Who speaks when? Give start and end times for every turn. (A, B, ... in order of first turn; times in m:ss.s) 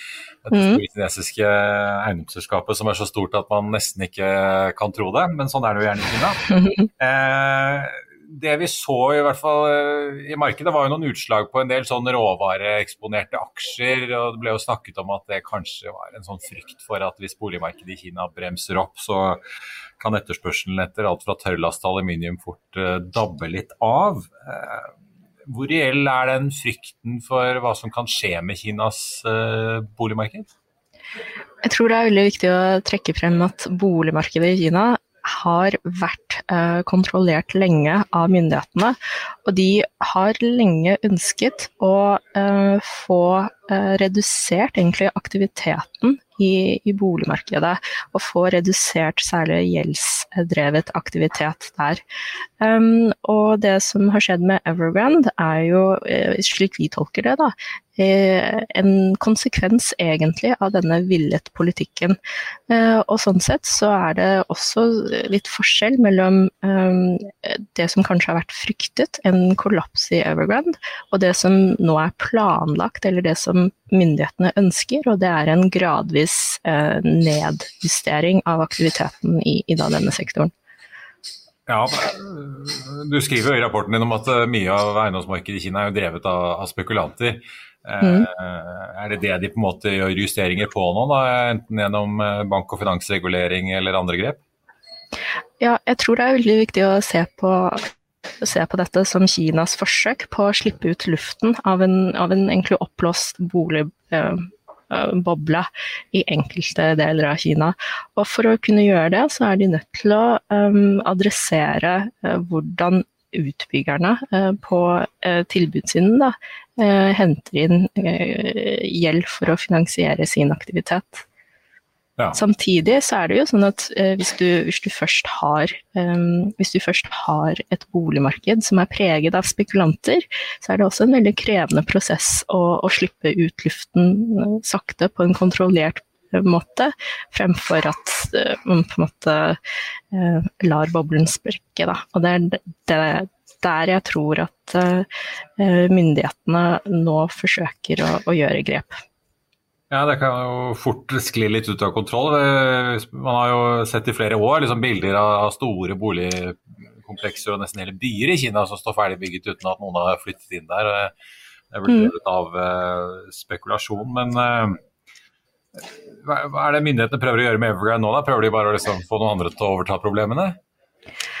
0:00.4-0:19.4 A
0:00.5-0:00.8 B
0:20.0-0:24.9 A
0:25.5-0:30.5 A
0:31.6-0:52.0 B
0:52.6-1:02.2 B
1:02.7-1:20.5 B
1:21.7-1:34.4 A
1:28.0-1:28.3 B
1:35.6-1:37.8 B
1:38.4-2:01.2 B
2:02.3-2:19.6 B
2:20.1-2:25.1 B
2:25.6-2:29.0 B
2:29.9-2:41.1 A
2:41.7-2:44.8 A
2:41.9-2:42.1 B
2:46.1-2:50.6 A